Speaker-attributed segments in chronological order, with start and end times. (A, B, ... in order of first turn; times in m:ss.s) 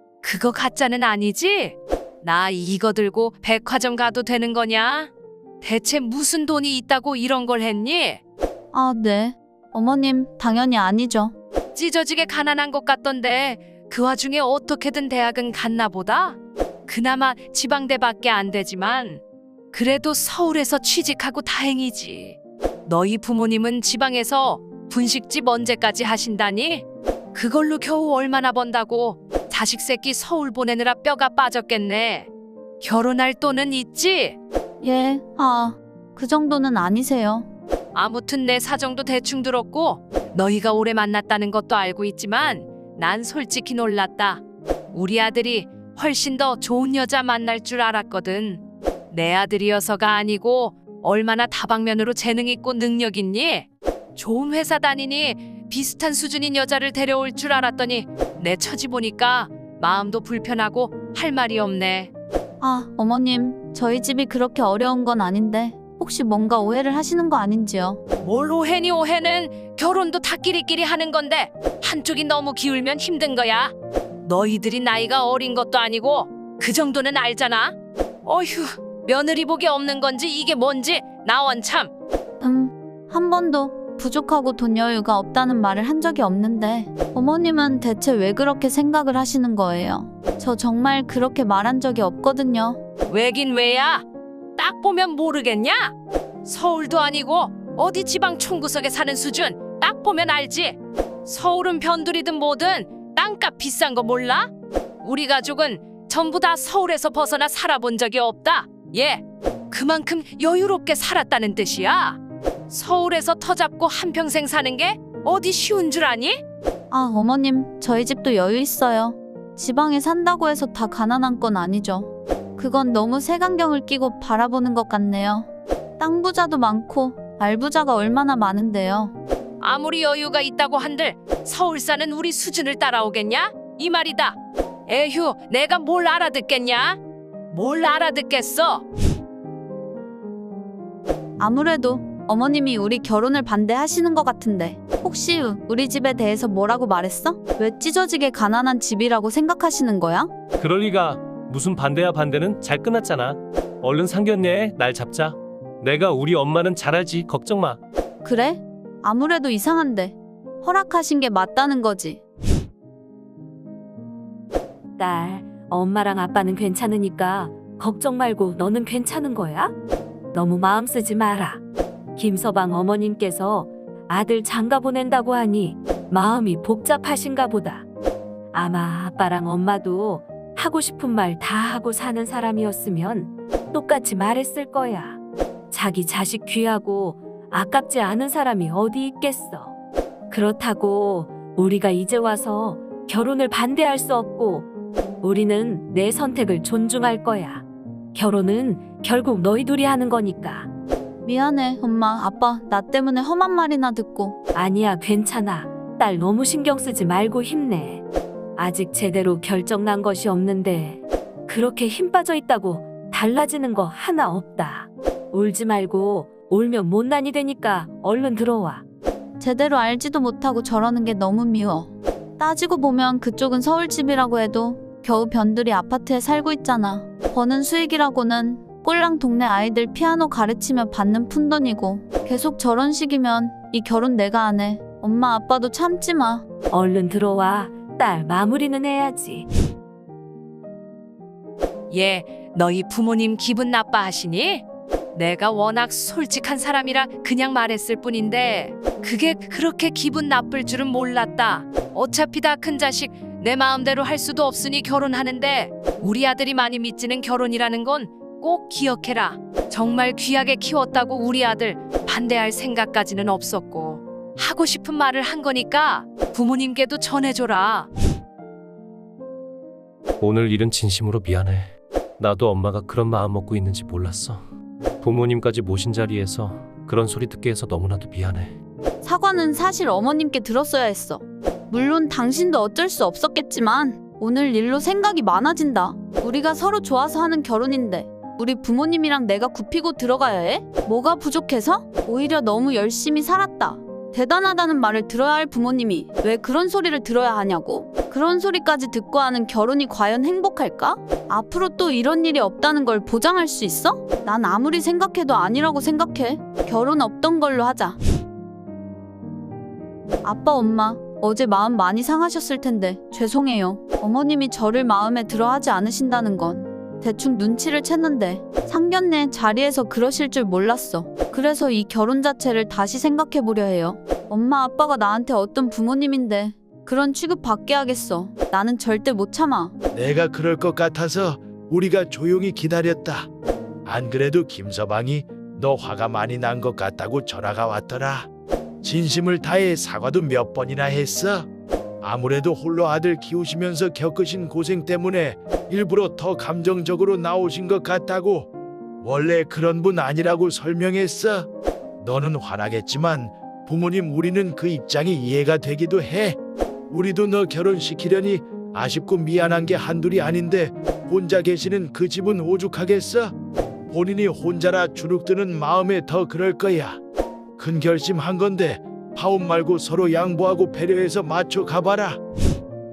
0:00.2-0:08.2 A
0:08.7-0:11.3 B
0:11.7-0:32.3 A
0:32.8-0:34.4 A
0:34.8-0:37.5 B
0:37.9-0:44.4 A
0:44.9-1:02.1 A
1:02.6-1:08.0 B
1:08.2-1:13.7 A
1:14.2-1:17.7 A
1:18.2-1:21.9 A
1:22.4-1:32.8 B
1:33.1-1:34.0 A
1:34.6-1:35.9 A
1:36.4-1:44.5 A
1:45.0-1:56.4 A
1:56.9-2:09.1 B
2:09.6-2:17.0 A
2:17.5-2:18.8 A
2:21.4-2:30.3 B
2:30.6-2:37.8 C
2:38.2-2:42.2 B
2:45.0-2:49.7 D
2:50.3-2:51.6 D
2:52.2-2:57.8 D
2:58.5-3:05.2 D
3:05.7-3:09.7 D
3:10.3-3:14.7 D
3:15.2-3:20.7 D
3:21.2-3:24.4 B
3:24.5-3:28.0 D
3:28.6-3:38.8 D
3:39.4-3:56.4 B
3:56.7-3:59.5 D
4:01.9-4:27.9 A
4:30.2-4:34.4 C
4:35.0-4:38.6 C
4:39.0-5:08.0 B
5:10.2-5:29.7 B
5:29.9-5:33.3 E
5:33.8-5:38.3 E
5:38.8-5:41.5 E
5:42.0-5:48.5 E
5:49.0-5:51.5 E
5:52.0-5:56.4 E
5:56.9-6:03.3 E
6:03.9-6:07.0 E
6:07.6-6:12.2 E